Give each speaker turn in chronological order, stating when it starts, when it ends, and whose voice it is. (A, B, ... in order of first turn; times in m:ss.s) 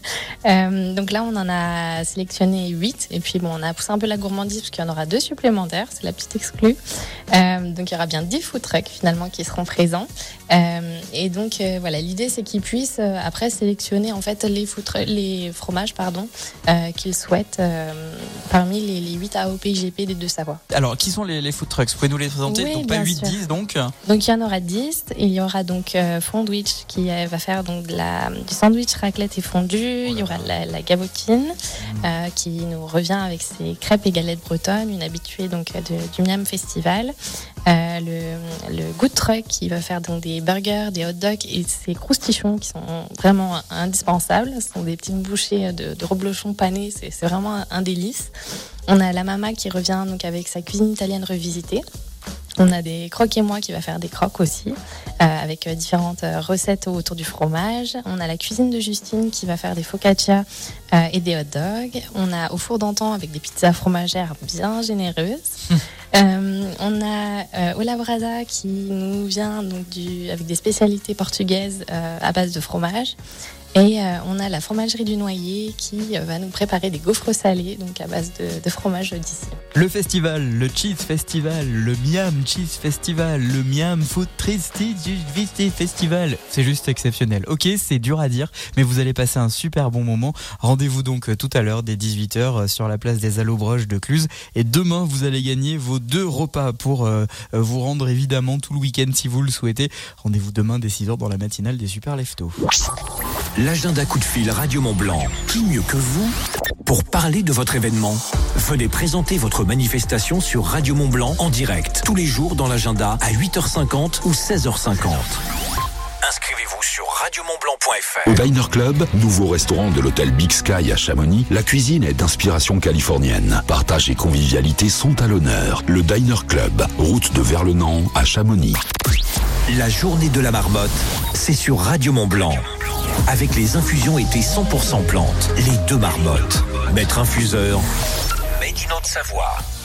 0:00.4-0:06.8 A
0:07.3-0:20.6 A
0:20.7-0:23.9 B
0:22.4-0:23.4 A
0:24.0-0:37.1 A
0:37.7-0:48.3 A
0:48.9-0:51.8 A
0:52.6-1:05.6 A
1:06.1-1:13.2 A
1:13.7-1:19.6 A
1:19.7-1:42.6 B
1:43.6-1:55.4 C
1:56.2-1:58.4 C
1:58.2-2:08.8 D
2:09.7-2:12.6 C
2:13.3-2:17.9 C
2:18.6-2:19.6 C